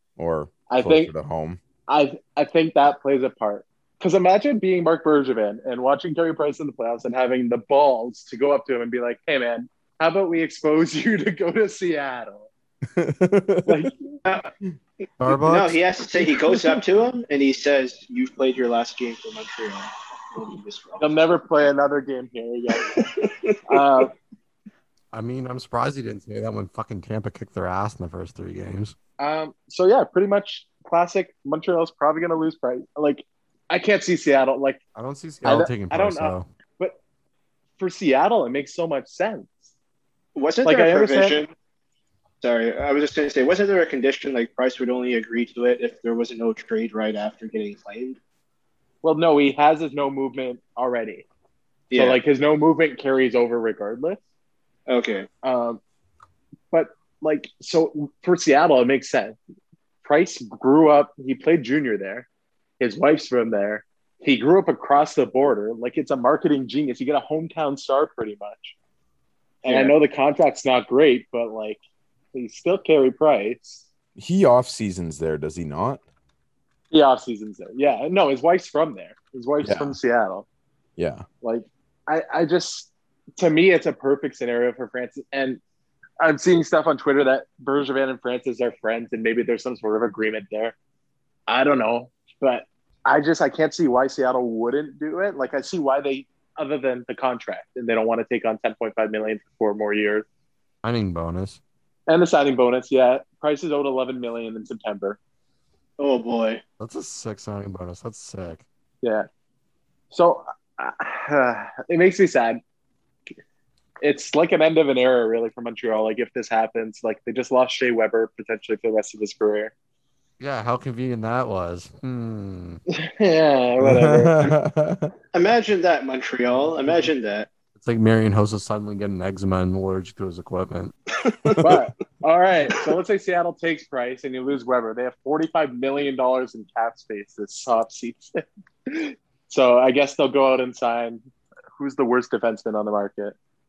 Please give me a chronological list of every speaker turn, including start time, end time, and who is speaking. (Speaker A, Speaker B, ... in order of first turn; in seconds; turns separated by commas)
Speaker A: 0.2-1.6, Speaker B: 0.7-1.1, Speaker B: 1.9-12.5, Speaker A: 12.9-13.9, Speaker B: 13.7-14.2, Speaker C: 14.2-14.5, Speaker D: 15.2-15.8, Speaker C: 15.4-21.1, Speaker B: 16.3-16.8, Speaker B: 21.0-23.1, Speaker C: 22.8-23.9, Speaker B: 23.7-24.1, Speaker D: 25.1-28.9, Speaker B: 29.2-34.8, Speaker D: 34.9-36.5, Speaker B: 35.4-37.0, Speaker B: 37.8-39.7, Speaker C: 40.3-41.5, Speaker B: 40.6-41.4, Speaker C: 42.4-48.2, Speaker B: 49.0-51.2, Speaker C: 51.9-52.2, Speaker B: 51.9-54.2, Speaker C: 54.9-55.3, Speaker B: 55.4-55.8, Speaker B: 56.7-59.4, Speaker B: 60.0-62.3, Speaker B: 62.8-68.7, Speaker C: 69.6-70.0, Speaker B: 69.6-71.8, Speaker B: 72.3-73.8, Speaker A: 74.2-76.0, Speaker B: 76.9-80.5, Speaker A: 79.6-80.0, Speaker A: 81.0-81.2, Speaker B: 81.4-85.6, Speaker B: 86.2-90.7, Speaker B: 91.5-100.2, Speaker D: 100.8-101.6, Speaker B: 102.1-105.2, Speaker C: 106.0-106.6, Speaker D: 106.8-108.6, Speaker B: 109.0-109.3, Speaker B: 110.1-112.6, Speaker B: 114.0-119.7, Speaker D: 120.4-122.8, Speaker B: 122.9-124.5, Speaker A: 123.8-125.1, Speaker C: 125.3-127.5, Speaker D: 127.7-130.9, Speaker C: 131.1-131.7, Speaker B: 131.6-141.2, Speaker B: 141.8-143.3